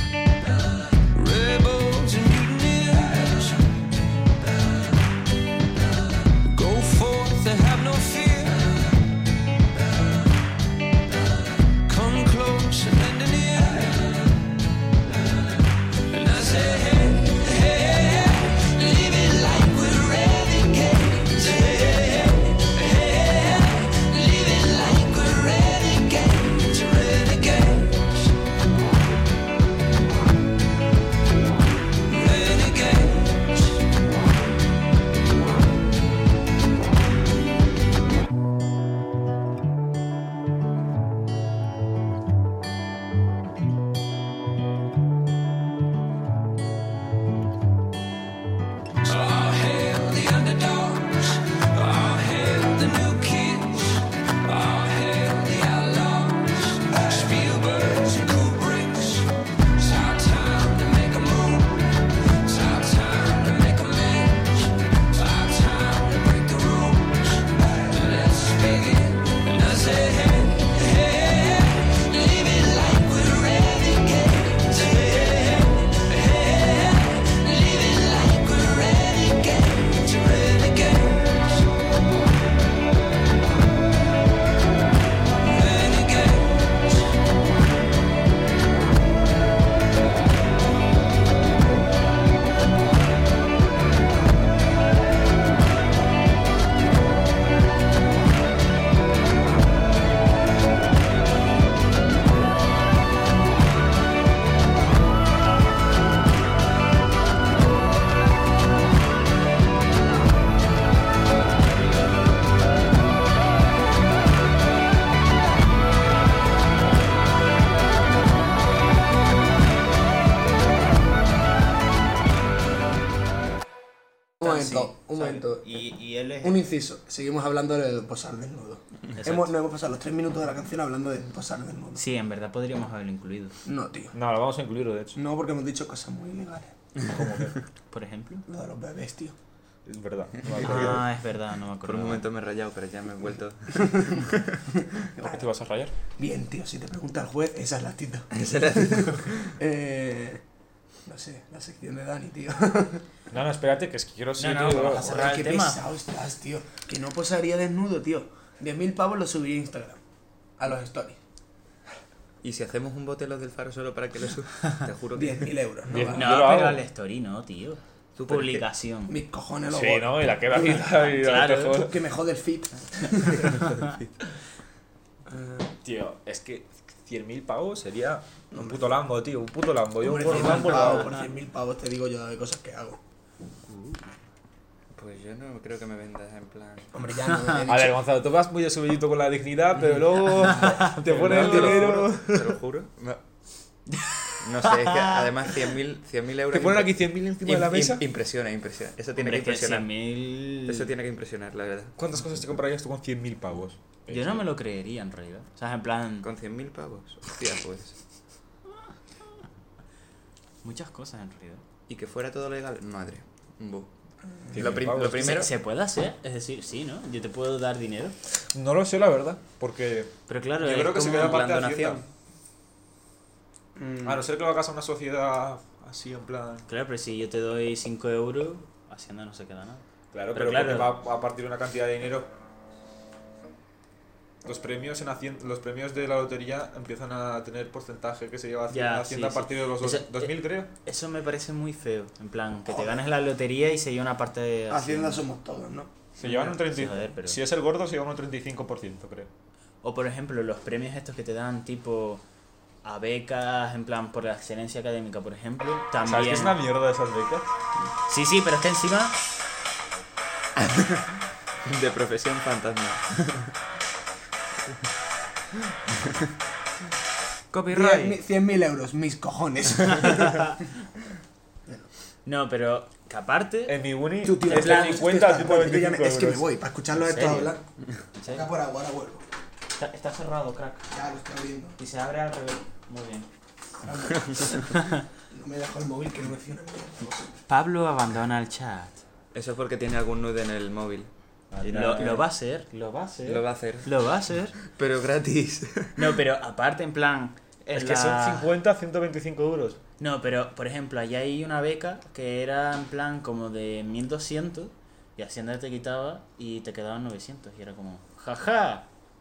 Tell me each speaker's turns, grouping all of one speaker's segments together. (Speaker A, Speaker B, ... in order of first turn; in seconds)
Speaker A: 1.1-3.7, 6.5-8.9, 11.9-14.2, 16.1-28.3, 32.1-33.8, 49.0-81.7, 85.4-87.0
Speaker B: 124.4-125.8, 126.4-132.0, 133.7-134.2, 135.2-136.7, 138.5-139.4, 143.8-145.5, 146.2-150.4, 151.1-153.1, 154.9-160.0, 160.6-161.2, 165.2-166.3, 169.1-171.1, 171.7-173.7, 175.3-175.7, 178.5-178.9, 180.0-183.0, 186.9-188.0, 223.8-224.2, 242.7-243.0, 244.7-245.9, 267.7-270.6, 274.2-277.6, 278.3-279.2, 280.9-281.8, 283.8-284.7, 285.3-287.4
Speaker C: 124.4-126.6, 129.2-129.5, 132.0-133.6, 137.9-138.5, 140.6-142.2, 154.4-155.8, 166.1-169.2, 170.9-171.8, 180.3-181.3, 183.7-184.0, 187.3-187.6, 190.4-191.9, 193.9-195.5, 199.2-200.9, 204.1-206.3, 210.6-211.6, 215.1-218.2, 220.3-221.5, 226.7-230.9, 238.7-245.2, 246.2-247.4, 249.8-252.2, 252.8-256.6, 258.1-259.2, 267.6-268.1, 270.1-270.5, 272.3-273.8, 274.5-275.0, 277.0-277.6, 278.2-278.5, 279.8-280.9, 281.8-283.3, 284.7-285.0, 287.5-289.0, 291.5-294.6, 296.0-298.5, 300.0-308.9
Speaker D: 134.1-135.2, 137.1-137.6, 139.9-141.0, 145.2-145.9, 153.3-155.2, 165.9-166.8, 169.7-172.0, 175.8-181.1, 187.7-192.6, 196.5-198.0, 202.0-204.5, 214.5-215.5, 218.5-222.0, 224.1-226.7, 230.1-232.3, 234.4-240.7, 246.2-249.3, 256.1-257.5, 273.7-276.4, 297.7-299.8
Speaker E: 141.8-144.5, 148.3-149.5, 162.4-165.5, 168.2-168.6, 173.6-174.1, 184.9-186.9, 191.0-193.2, 194.4-199.9, 200.7-201.9, 206.2-208.0, 211.9-213.9, 214.5-215.5, 220.9-222.1, 260.6-261.1, 261.6-263.5, 267.6-268.0, 289.3-291.1, 291.6-292.2, 293.3-293.9, 294.7-296.0